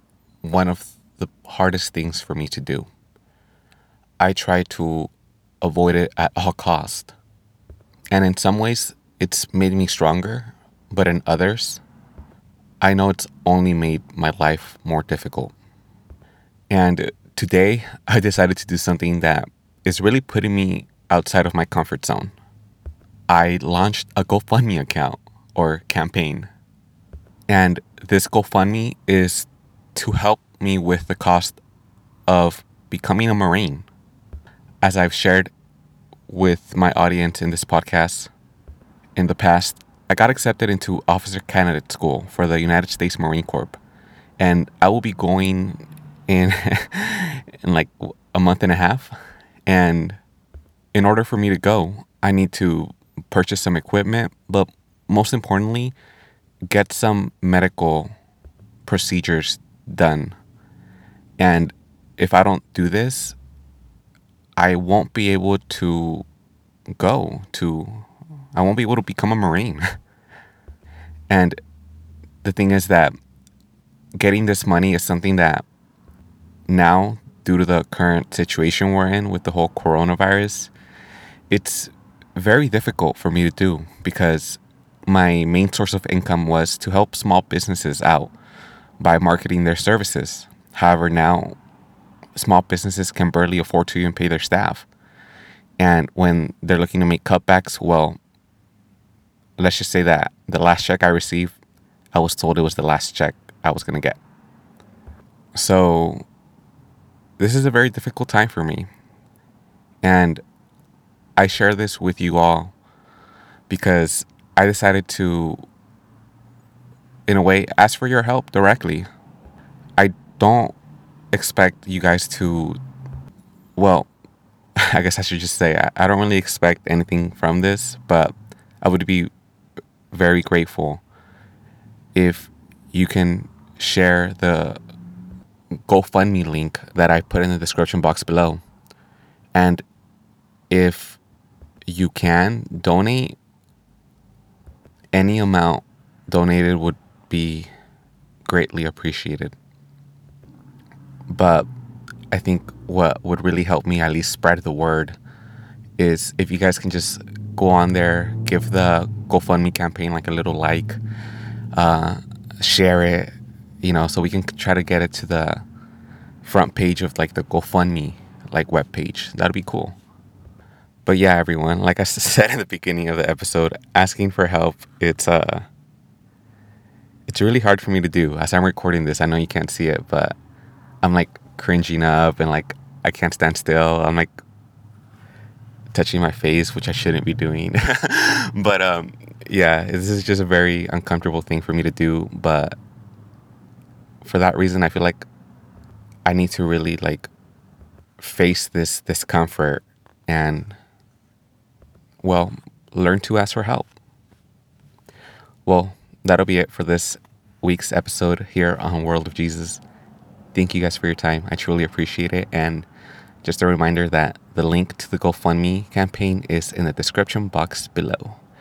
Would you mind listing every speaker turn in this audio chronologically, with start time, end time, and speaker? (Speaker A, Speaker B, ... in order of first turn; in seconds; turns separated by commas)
Speaker A: 0.4-2.9, Speaker A: 4.2-5.1, Speaker A: 5.6-7.1, Speaker A: 8.1-11.8, Speaker A: 12.8-15.5, Speaker A: 16.7-22.3, Speaker A: 23.3-26.5, Speaker A: 27.5-31.6, Speaker A: 32.3-33.9, Speaker A: 34.8-35.5, Speaker A: 36.3-38.3, Speaker A: 39.1-43.8, Speaker A: 44.4-49.1, Speaker A: 49.7-50.2, Speaker A: 50.9-55.9, Speaker A: 56.7-58.1, Speaker A: 58.8-60.4, Speaker A: 61.4-63.4, Speaker A: 64.6-66.2, Speaker A: 67.0-69.9, Speaker A: 71.3-71.6, Speaker A: 72.4-73.2, Speaker A: 74.2-75.7, Speaker A: 76.7-80.7, Speaker A: 81.5-88.3, Speaker A: 89.0-91.5, Speaker A: 92.3-94.9, Speaker A: 95.8-98.2, Speaker A: 99.6-101.6, Speaker A: 102.1-104.2, Speaker A: 105.5-106.2, Speaker A: 107.4-108.9, Speaker A: 110.0-110.4, Speaker A: 111.4-112.7, Speaker A: 113.7-115.6, Speaker A: 117.3-119.1, Speaker A: 120.0-120.8, Speaker A: 121.3-122.8, Speaker A: 123.8-124.1, Speaker A: 124.8-129.3, Speaker A: 130.1-131.0, Speaker A: 132.1-134.8, Speaker A: 135.9-138.6, Speaker A: 139.5-139.8, Speaker A: 140.7-141.2, Speaker A: 141.9-143.3, Speaker A: 145.1-147.7, Speaker A: 148.4-149.5, Speaker A: 151.3-151.7, Speaker A: 152.3-155.2, Speaker A: 156.0-161.0, Speaker A: 161.7-165.6, Speaker A: 166.4-170.0, Speaker A: 171.0-175.7, Speaker A: 177.3-180.3, Speaker A: 181.0-184.3, Speaker A: 185.9-192.8, Speaker A: 194.2-195.2, Speaker A: 196.2-197.3, Speaker A: 198.2-200.8, Speaker A: 202.2-203.9, Speaker A: 205.6-209.8, Speaker A: 210.5-212.9, Speaker A: 213.4-218.4